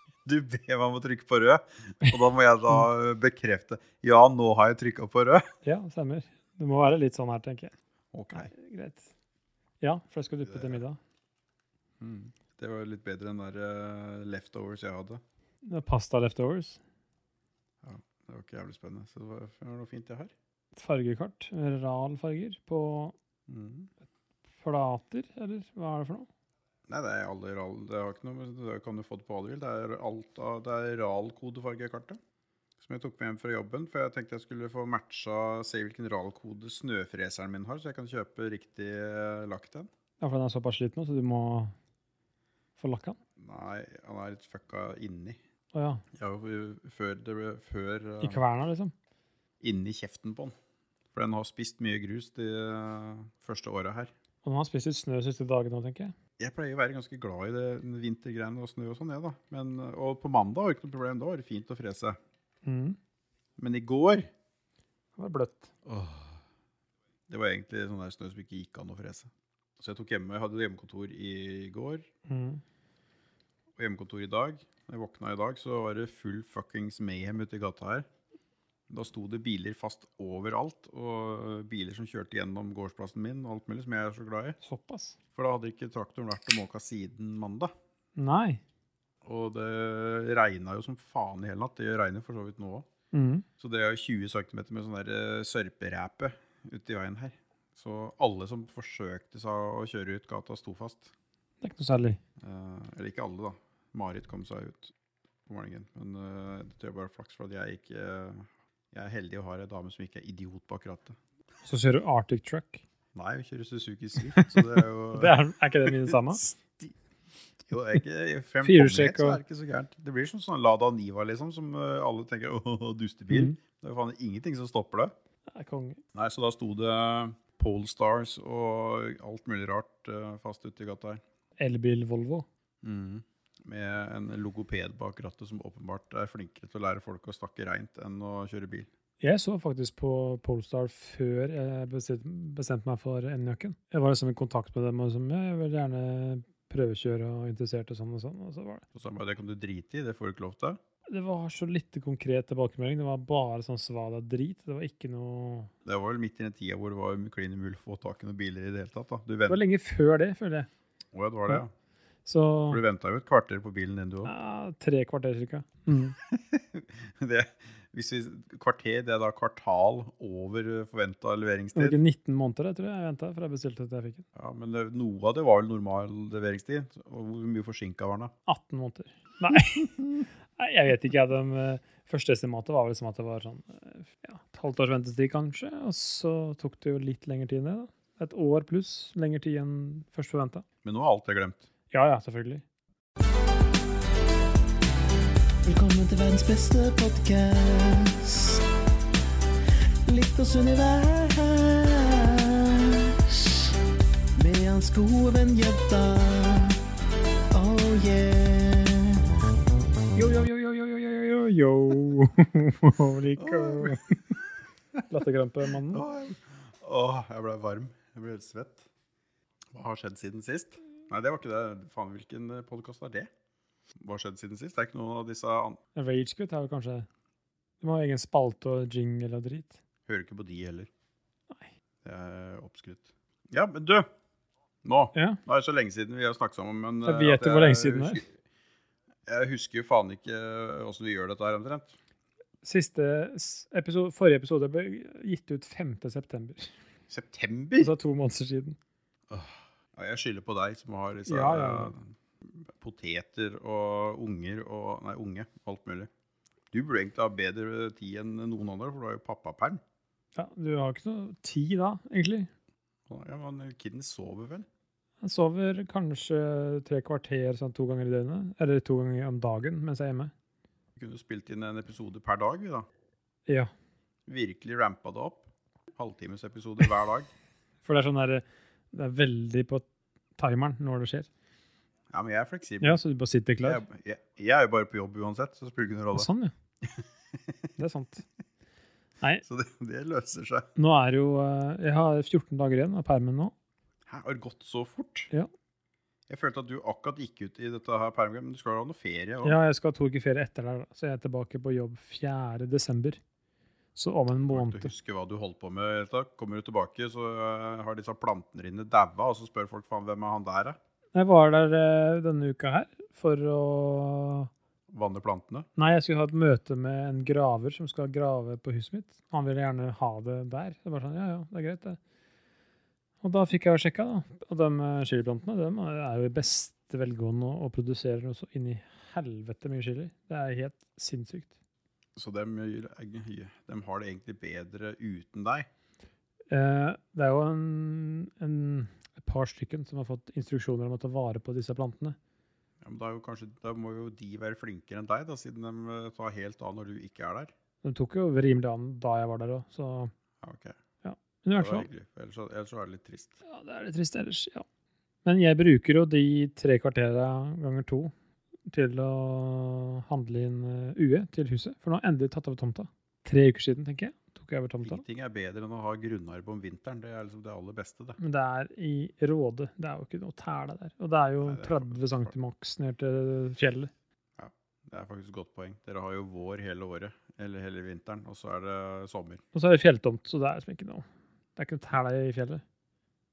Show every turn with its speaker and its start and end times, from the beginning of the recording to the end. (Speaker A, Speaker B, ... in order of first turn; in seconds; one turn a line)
Speaker A: 0.2-5.5
Speaker B: 5.6-7.7
Speaker A: 8.1-8.5
Speaker B: 8.3-9.1
Speaker B: 9.8-11.0
Speaker A: 10.5-10.8
Speaker A: 12.0-15.2
Speaker B: 15.6-16.8
Speaker A: 17.8-20.3
Speaker B: 20.8-23.1
Speaker A: 23.5-23.9
Speaker B: 24.6-26.3
Speaker A: 26.9-32.2
Speaker A: 32.8-39.9
Speaker B: 40.2-41.7
Speaker B: 42.8-43.2
Speaker A: 43.4-45.4
Speaker B: 45.7-46.0
Speaker A: 46.1-48.4
Speaker B: 48.2-48.9
Speaker A: 49.6-50.5
Speaker A: 51.1-54.1
Speaker B: 54.4-56.1
Speaker A: 56.4-62.2
Speaker B: 62.6-63.0
Speaker A: 63.6-64.3
Speaker B: 65.2-65.7
Speaker A: 65.8-66.4
Speaker A: 67.3-72.1
Speaker B: 72.2-72.6
Speaker A: 73.8-78.0
Speaker A: 78.9-84.6
Speaker B: 84.6-85.2
Speaker A: 85.3-87.7
Speaker B: 88.2-88.6
Speaker A: 89.2-92.8
Speaker B: 93.1-93.4
Speaker A: 93.6-101.1
Speaker B: 101.6-102.2
Speaker A: 102.4-104.9
Speaker A: 105.5-111.2
Speaker B: 111.6-112.8
Speaker A: 113.1-116.9
Speaker B: 114.4-116.4
Speaker A: 117.7-125.1
Speaker B: 118.6-119.4
Speaker B: 125.5-126.0
Speaker A: 126.1-131.2
Speaker B: 131.6-132.4
Speaker A: 132.8-138.9
Speaker B: 139.2-148.8
Speaker A: 148.9-150.8
Speaker B: 151.1-155.7
Speaker A: 155.8-159.6
Speaker B: 159.5-160.7
Speaker A: 161.1-161.7
Speaker B: 162.2-162.8
Speaker A: 162.7-164.3
Speaker B: 164.2-166.2
Speaker A: 166.2-172.0
Speaker B: 171.7-174.2
Speaker A: 174.3-178.3
Speaker B: 178.5-190.6
Speaker A: 190.8-191.6
Speaker B: 191.9-192.6
Speaker C: 195.7-198.6
Speaker C: 200.1-203.7
Speaker C: 204.4-206.8
Speaker C: 207.5-209.2
Speaker B: 210.1-214.2
Speaker A: 213.4-214.0
Speaker B: 215.1-216.0
Speaker A: 215.9-218.8
Speaker A: 219.7-223.3
Speaker A: 224.0-225.8
Speaker B: 225.9-227.1
Speaker B: 227.8-229.8
Speaker A: 230.1-230.9
Speaker A: 232.0-234.1
Speaker A: 234.8-238.3
Speaker B: 237.0-238.2
Speaker A: 239.3-241.9
Speaker B: 242.6-246.7
Speaker A: 247.1-247.9
Speaker B: 247.8-248.8
Speaker A: 249.3-256.1
Speaker B: 251.2-251.9
Speaker A: 256.7-259.8
Speaker B: 260.3-262.5
Speaker A: 263.1-264.6
Speaker B: 265.2-270.3
Speaker A: 270.9-272.9
Speaker A: 274.3-277.3
Speaker B: 277.8-279.8
Speaker B: 280.4-281.3
Speaker A: 282.1-283.0
Speaker B: 282.8-283.8
Speaker A: 283.6-286.3
Speaker B: 286.1-286.5
Speaker A: 286.9-287.7
Speaker B: 287.8-288.2
Speaker A: 289.4-290.7
Speaker B: 290.8-293.5
Speaker A: 294.1-295.3
Speaker A: 296.3-299.6
Speaker B: 299.4-303.2
Speaker B: 303.9-304.9
Speaker A: 304.5-310.8
Speaker B: 311.1-314.5
Speaker A: 314.9-315.7
Speaker B: 315.8-322.0
Speaker B: 323.2-331.5
Speaker A: 332.1-335.7
Speaker B: 336.5-342.2
Speaker A: 342.8-347.5
Speaker B: 347.8-350.1
Speaker A: 350.4-350.8
Speaker B: 351.0-351.9
Speaker A: 351.5-353.4
Speaker B: 353.4-354.6
Speaker B: 355.2-358.1
Speaker B: 358.6-365.0
Speaker A: 364.8-368.2
Speaker B: 368.2-373.9
Speaker A: 371.4-372.3
Speaker A: 374.4-379.4
Speaker B: 379.5-382.6